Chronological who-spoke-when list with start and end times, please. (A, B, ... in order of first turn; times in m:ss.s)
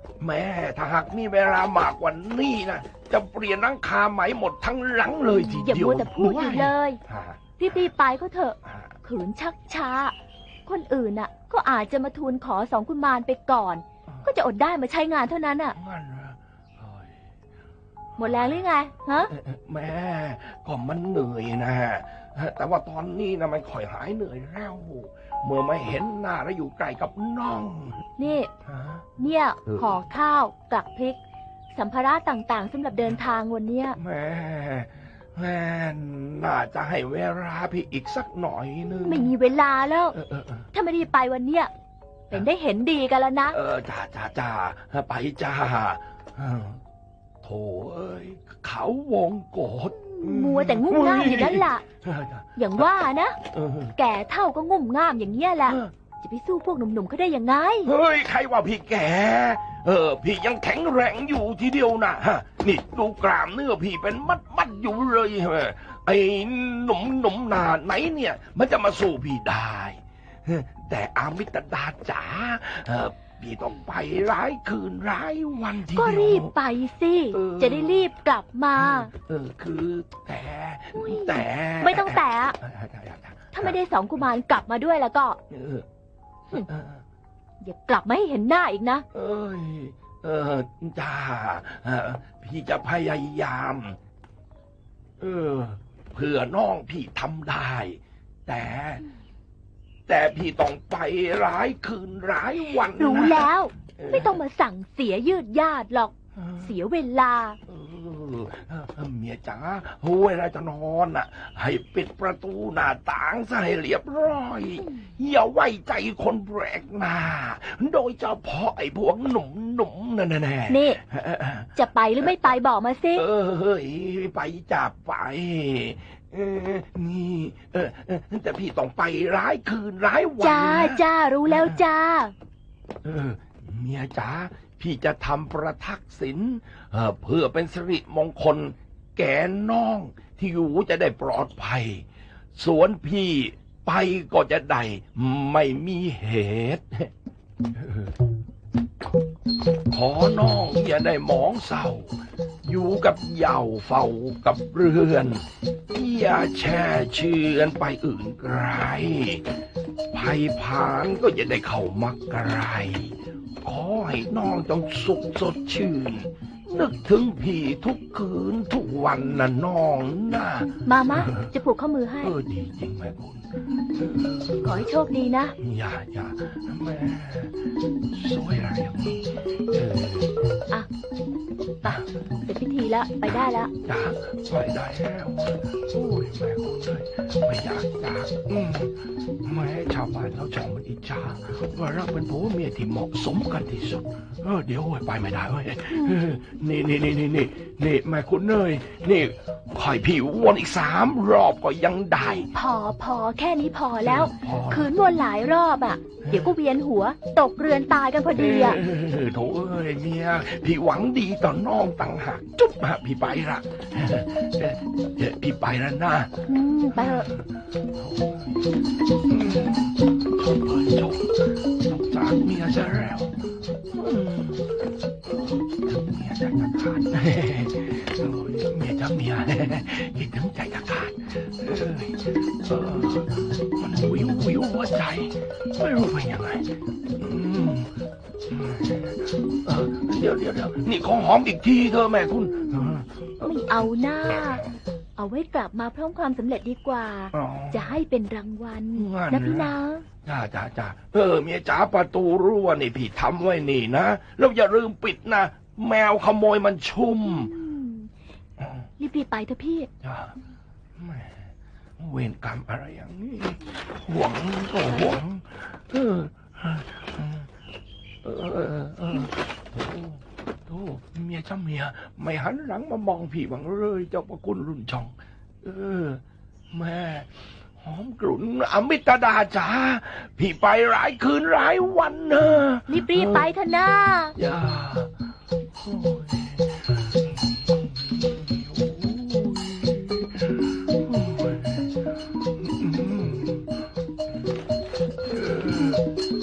0:00.2-0:07.9 A
0:05.3-0:07.0 B
0:07.6-0:10.1 B
0:08.6-0:08.9 A
0:10.6-0:15.8 B
0:15.7-0:17.2 A
0:18.2-0:19.3 B
0:18.2-0:18.6 A
0:19.3-0:28.0 A
0:28.2-0:28.5 B
0:28.6-0:29.0 A
0:29.2-0:31.2 B
0:29.6-0:30.0 A
0:31.7-0:34.0 B
0:34.0-0:39.3 A
0:39.0-0:40.2 B
0:40.1-0:40.7 A
0:40.7-0:41.7 B
0:42.3-0:43.6 B
0:43.5-0:46.8 A
0:47.4-0:52.8 A
0:50.0-0:51.8 B
0:52.6-0:53.4 B
0:53.5-0:53.9 A
0:53.9-0:57.9 B
0:55.6-0:55.9 A
0:57.8-1:16.5 A
1:15.9-1:19.1 B
1:17.3-1:18.1 A
1:18.8-1:24.2 A
1:20.9-1:22.6 B
1:23.5-1:25.4 B
1:25.5-1:25.8 A
1:26.5-1:27.0 A
1:27.6-1:29.0 B
1:29.1-1:34.0 A
1:35.2-1:39.1 A
1:40.1-1:44.4 A
1:42.9-1:47.6 B
1:46.4-1:46.7 A
1:47.7-2:02.5 A
2:00.7-2:01.0 B
2:01.7-2:03.2 B
2:03.1-2:11.8 A
2:10.4-2:12.3 B
2:13.0-2:27.1 A
2:27.8-2:28.1 A
2:29.9-2:39.6 A
2:40.1-2:51.5 A
2:50.8-2:52.3 B
2:52.2-2:54.9 A
2:54.6-2:55.5 B
2:55.6-3:00.4 A
3:01.8-3:03.7 B
3:03.8-3:22.5 A
3:22.5-3:28.8 B
3:24.0-3:24.9 A
3:26.2-3:26.5 A
3:28.3-3:36.3 A
3:36.5-3:37.3 B
3:36.9-3:38.6 A
3:39.3-3:44.7 A
3:45.2-3:57.9 A
3:58.5-4:03.7 A
4:02.7-4:10.0 B
4:07.3-4:08.0 A
4:08.9-4:17.5 A
4:17.2-4:18.1 B
4:19.0-4:19.9 B
4:20.0-4:20.3 A
4:21.0-4:27.5 A
4:28.2-4:36.2 A
4:36.7-4:43.4 A
4:42.9-4:44.3 B
4:44.4-4:45.1 A
4:45.8-4:51.9 A
4:52.6-4:53.8 A
4:55.3-4:56.1 A